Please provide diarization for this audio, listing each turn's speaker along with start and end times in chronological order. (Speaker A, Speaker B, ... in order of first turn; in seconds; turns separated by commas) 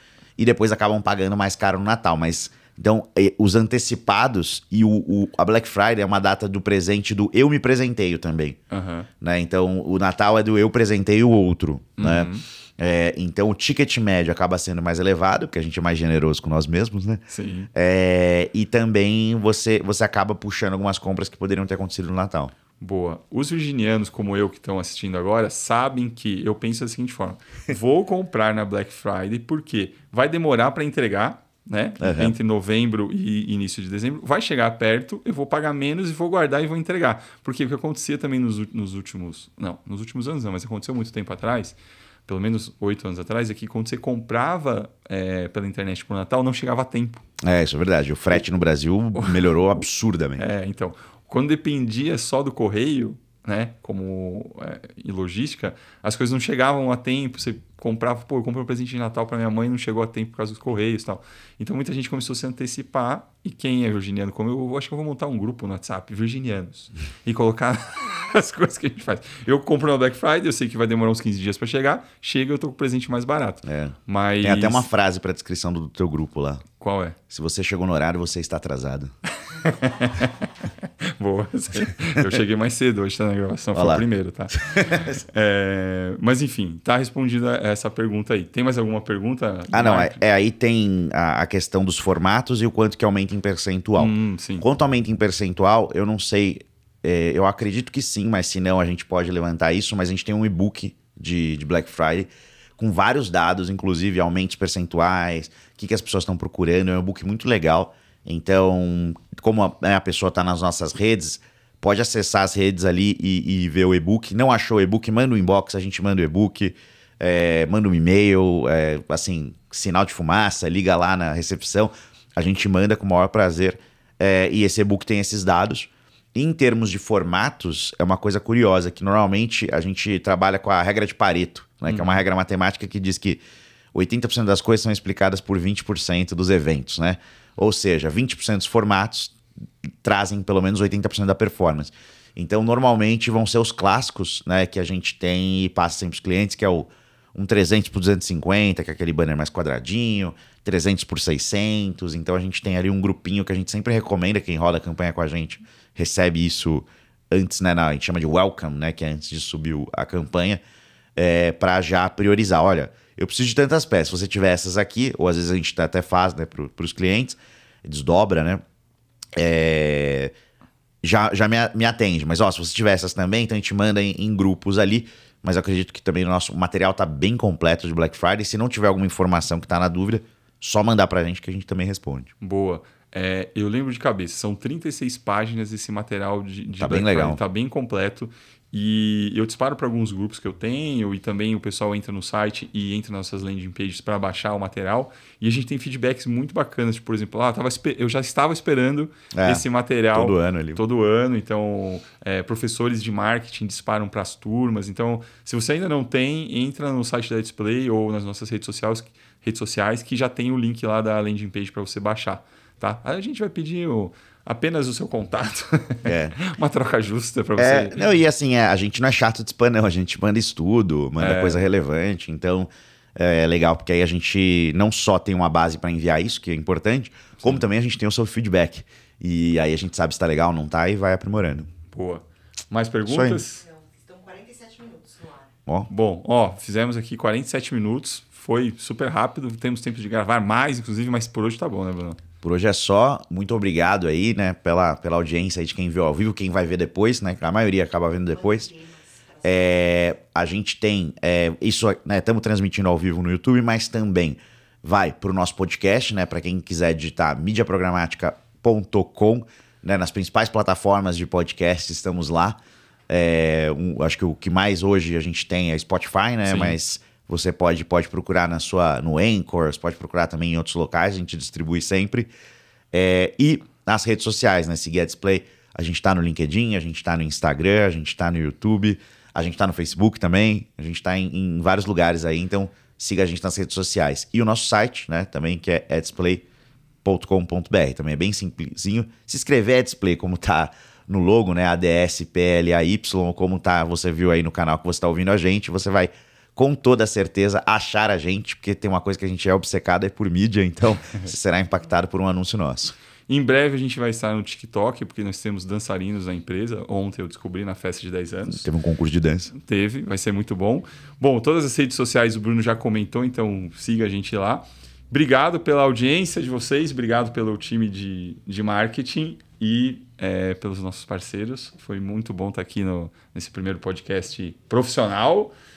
Speaker A: 0.4-8.6, Speaker B: 8.7-9.1, Speaker A: 9.2-17.2, Speaker B: 12.0-12.4, Speaker B: 17.3-17.7, Speaker A: 17.7-22.5, Speaker B: 22.8-47.2, Speaker A: 32.0-32.4, Speaker A: 47.4-50.5, Speaker B: 49.2-49.5, Speaker B: 50.4-74.9, Speaker A: 73.6-76.6, Speaker B: 76.8-77.2, Speaker A: 77.3-79.1, Speaker B: 79.4-90.2, Speaker A: 83.7-84.0, Speaker A: 84.5-85.2, Speaker A: 89.7-133.4, Speaker B: 94.0-94.7, Speaker B: 131.9-132.2, Speaker A: 133.9-139.4, Speaker A: 140.0-160.6, Speaker A: 161.2-168.6, Speaker A: 169.4-170.3, Speaker A: 171.0-182.3, Speaker B: 182.4-218.0, Speaker A: 186.8-187.4, Speaker A: 199.3-200.8, Speaker A: 216.1-216.4, Speaker A: 217.6-231.7, Speaker B: 221.2-221.6, Speaker B: 231.9-233.6, Speaker A: 233.1-233.4, Speaker C: 233.6-235.6, Speaker B: 235.9-242.2, Speaker A: 242.4-248.7, Speaker C: 248.3-249.9, Speaker A: 249.4-272.3, Speaker B: 266.4-266.8, Speaker A: 272.9-286.4, Speaker A: 287.0-302.9, Speaker B: 303.3-308.7, Speaker A: 308.5-309.5, Speaker B: 309.5-325.5